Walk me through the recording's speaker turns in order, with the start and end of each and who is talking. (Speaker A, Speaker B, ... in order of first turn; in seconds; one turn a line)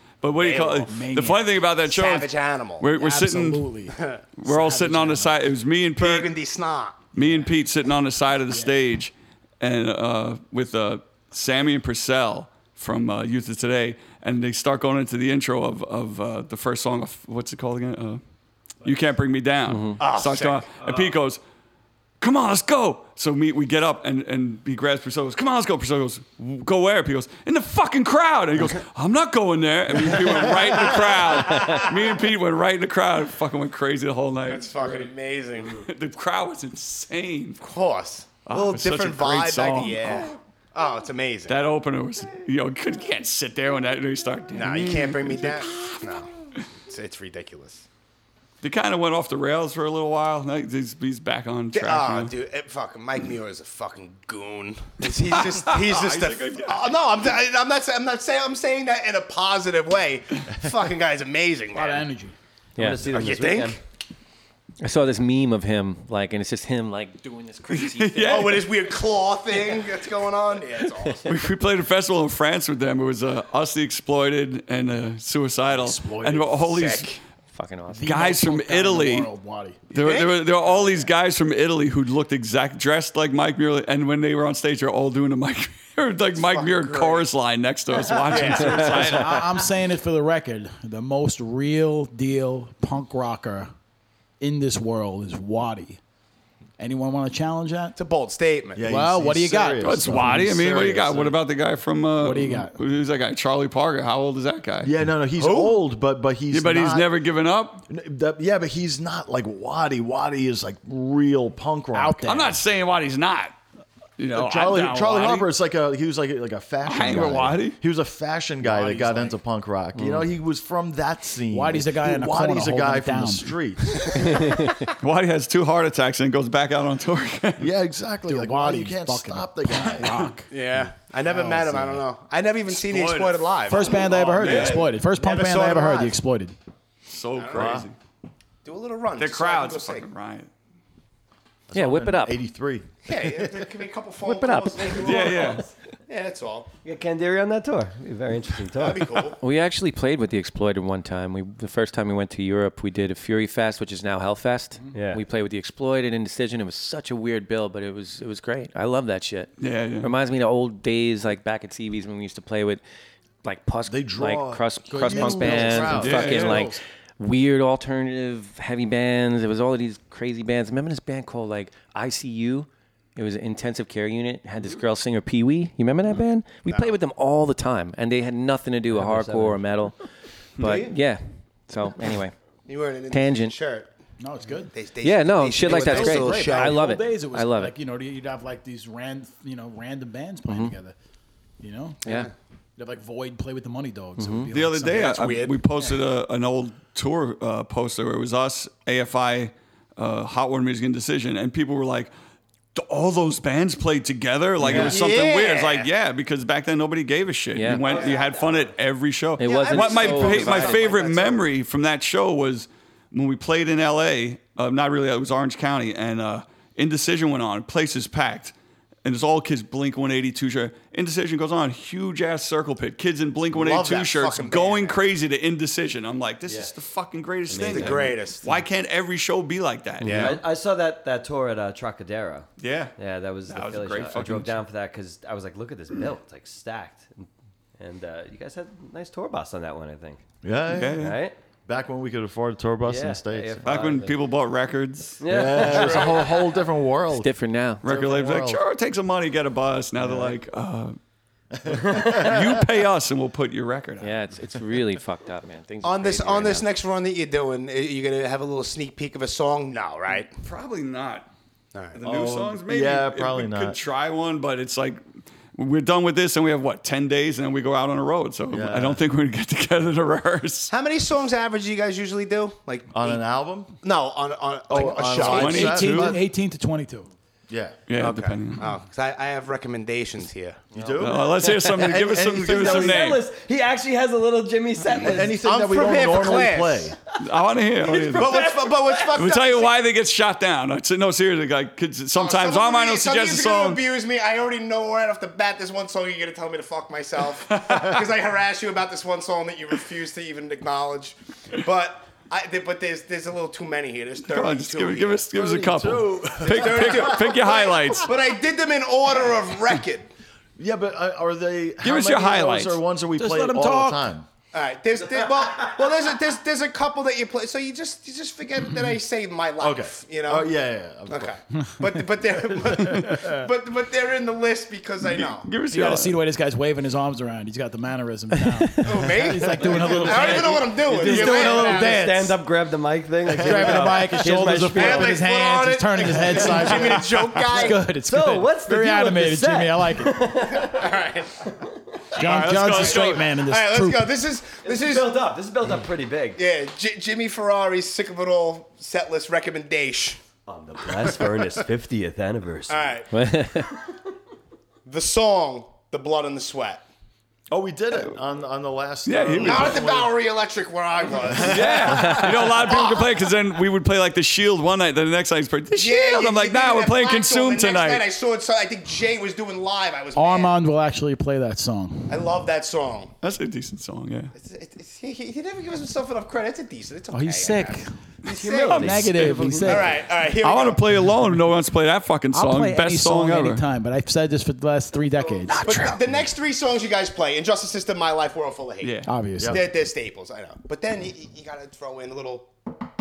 Speaker A: 0.2-3.7
Speaker B: 0.4-0.9
Speaker C: 0.8-1.5
Speaker B: 1.8-2.9
Speaker C: 2.9-5.4
Speaker B: 3.9-4.2
Speaker A: 4.4-6.3
Speaker B: 6.0-7.1
Speaker A: 7.1-18.2
Speaker A: 18.8-21.4
Speaker D: 19.7-20.0
Speaker B: 20.0-21.1
Speaker A: 22.2-35.1
Speaker B: 30.4-32.0
Speaker B: 34.5-35.8
Speaker A: 35.7-37.6
Speaker B: 37.6-41.6
Speaker A: 38.5-40.3
Speaker A: 41.5-46.0
Speaker B: 44.5-46.3
Speaker B: 46.9-47.8
Speaker A: 48.6-52.3
Speaker B: 51.7-62.0
Speaker A: 55.2-57.0
Speaker C: 61.7-62.3
Speaker D: 62.8-63.1
Speaker E: 62.8-63.8
Speaker B: 63.0-63.8
Speaker D: 64.8-68.7
Speaker A: 67.7-68.7
Speaker B: 68.2-71.3
Speaker A: 71.2-77.1
Speaker C: 75.7-76.6
Speaker B: 76.6-77.2
Speaker D: 77.5-78.2
Speaker C: 77.9-79.8
Speaker A: 78.0-79.3
Speaker A: 79.9-89.5
Speaker B: 79.9-81.1
Speaker B: 86.3-87.3
Speaker B: 88.0-89.3
Speaker C: 89.0-93.7
Speaker C: 94.4-96.0
Speaker C: 96.8-98.0
Speaker B: 98.0-98.8
Speaker F: 98.7-101.4
Speaker C: 98.8-100.5
Speaker A: 99.8-104.9
Speaker C: 102.2-102.8
Speaker F: 104.8-107.1
Speaker B: 105.4-105.8
Speaker A: 106.5-107.8
Speaker F: 107.9-112.5
Speaker C: 111.9-112.5
Speaker A: 112.2-113.5
Speaker A: 114.2-115.5
Speaker F: 114.3-124.2
Speaker A: 116.8-117.8
Speaker C: 118.6-119.3
Speaker D: 120.0-120.3
Speaker C: 121.5-123.5
Speaker A: 125.0-127.7
Speaker F: 127.6-130.3
Speaker C: 128.3-130.5
Speaker B: 130.5-136.2
Speaker F: 131.4-131.9
Speaker A: 132.7-134.8
Speaker C: 133.7-136.5
Speaker A: 137.1-137.9
Speaker B: 137.3-137.8
Speaker F: 137.5-137.9
Speaker B: 138.6-140.1
Speaker A: 139.2-140.5
Speaker F: 141.7-143.7
Speaker D: 141.7-142.4
Speaker B: 143.0-146.7
Speaker D: 144.2-145.5
Speaker A: 145.0-145.7
Speaker E: 145.1-145.5
Speaker E: 146.8-149.1
Speaker B: 148.8-149.4
Speaker D: 149.4-162.8
Speaker E: 154.9-155.2
Speaker A: 159.6-160.1
Speaker D: 163.4-180.0
Speaker F: 163.9-166.5
Speaker C: 164.9-166.8
Speaker A: 165.9-166.6
Speaker B: 176.7-176.9
Speaker E: 178.9-179.6
Speaker D: 180.6-182.3
Speaker B: 180.6-180.9
Speaker B: 182.7-183.9
Speaker D: 183.1-183.6
Speaker C: 184.2-184.7
Speaker B: 184.7-186.8
Speaker D: 185.0-187.7
Speaker C: 185.7-190.9
Speaker D: 190.5-190.7
Speaker C: 191.6-192.0
Speaker B: 192.1-192.3
Speaker C: 192.8-195.2
Speaker D: 194.2-194.5
Speaker A: 194.5-202.1
Speaker B: 194.9-195.6
Speaker A: 202.7-230.4
Speaker D: 204.6-204.9
Speaker B: 204.6-205.9
Speaker D: 207.5-208.0
Speaker B: 207.8-208.7
Speaker E: 207.8-208.2
Speaker D: 209.4-211.0
Speaker B: 209.5-211.3
Speaker E: 210.0-211.1
Speaker B: 223.5-225.0
Speaker E: 226.5-226.7
Speaker E: 227.5-228.1
Speaker B: 227.6-228.5
Speaker D: 230.0-230.3
Speaker B: 230.0-230.4
Speaker E: 230.1-232.5
Speaker A: 232.6-232.9
Speaker E: 233.0-240.2
Speaker A: 233.5-234.6
Speaker F: 240.4-241.1
Speaker A: 240.7-241.2
Speaker E: 241.0-241.3
Speaker F: 241.7-243.7
Speaker E: 242.8-244.2
Speaker A: 243.6-245.2
Speaker E: 245.2-246.3
Speaker F: 245.3-247.3
Speaker B: 245.6-246.2
Speaker D: 247.1-247.8
Speaker F: 247.8-248.6
Speaker A: 247.8-251.0
Speaker F: 250.0-250.4
Speaker F: 251.5-252.6
Speaker A: 251.7-254.1
Speaker D: 254.0-256.7
Speaker B: 255.8-260.3
Speaker A: 260.4-261.3
Speaker B: 261.7-262.0
Speaker A: 261.9-265.0
Speaker F: 262.0-263.8
Speaker A: 265.5-270.7
Speaker F: 268.5-269.0
Speaker B: 270.7-273.2
Speaker F: 272.9-273.7
Speaker B: 273.8-275.7
Speaker F: 274.7-276.2
Speaker A: 275.2-276.2
Speaker C: 275.3-277.1
Speaker F: 277.5-277.8
Speaker A: 277.9-278.7
Speaker B: 278.0-280.6
Speaker F: 280.7-283.2
Speaker E: 280.8-285.4
Speaker A: 281.0-283.2
Speaker F: 285.0-286.9
Speaker B: 285.3-286.9
Speaker A: 287.2-288.5
Speaker E: 287.8-289.1
Speaker B: 288.1-289.7
Speaker A: 289.1-293.8
Speaker B: 292.1-305.3
Speaker A: 297.5-298.0
Speaker A: 304.3-308.1
Speaker F: 305.3-307.5
Speaker B: 306.4-310.1
Speaker F: 310.6-314.3
Speaker A: 311.8-312.8
Speaker C: 313.2-314.1
Speaker B: 314.5-320.5
Speaker F: 319.6-321.3
Speaker B: 321.1-325.5
Speaker A: 322.8-323.3
Speaker A: 325.0-326.1
Speaker C: 325.7-332.4
Speaker B: 328.8-331.9
Speaker E: 329.6-335.2
Speaker C: 333.3-340.1
Speaker F: 333.3-333.9
Speaker B: 334.7-337.8
Speaker E: 336.3-341.9
Speaker B: 340.5-341.4
Speaker C: 342.1-344.1
Speaker A: 342.2-343.3
Speaker B: 342.5-345.1
Speaker E: 344.6-346.4
Speaker B: 346.3-350.2
Speaker E: 350.5-352.9
Speaker B: 352.7-353.1
Speaker D: 353.1-353.7
Speaker B: 354.9-356.8
Speaker F: 357.5-360.1
Speaker A: 359.1-359.9
Speaker B: 359.4-363.3
Speaker F: 361.2-362.2
Speaker A: 361.4-368.0
Speaker D: 361.9-362.3
Speaker B: 365.7-370.5
Speaker C: 370.1-372.2
Speaker B: 372.1-373.1
Speaker A: 373.2-374.3
Speaker B: 374.3-380.8
Speaker C: 377.1-377.9
Speaker A: 378.3-383.6
Speaker E: 378.3-379.7
Speaker C: 378.7-379.9
Speaker C: 382.3-386.0
Speaker B: 385.3-388.9
Speaker A: 388.8-389.1
Speaker C: 389.1-389.6
Speaker F: 389.4-389.6
Speaker B: 389.5-392.5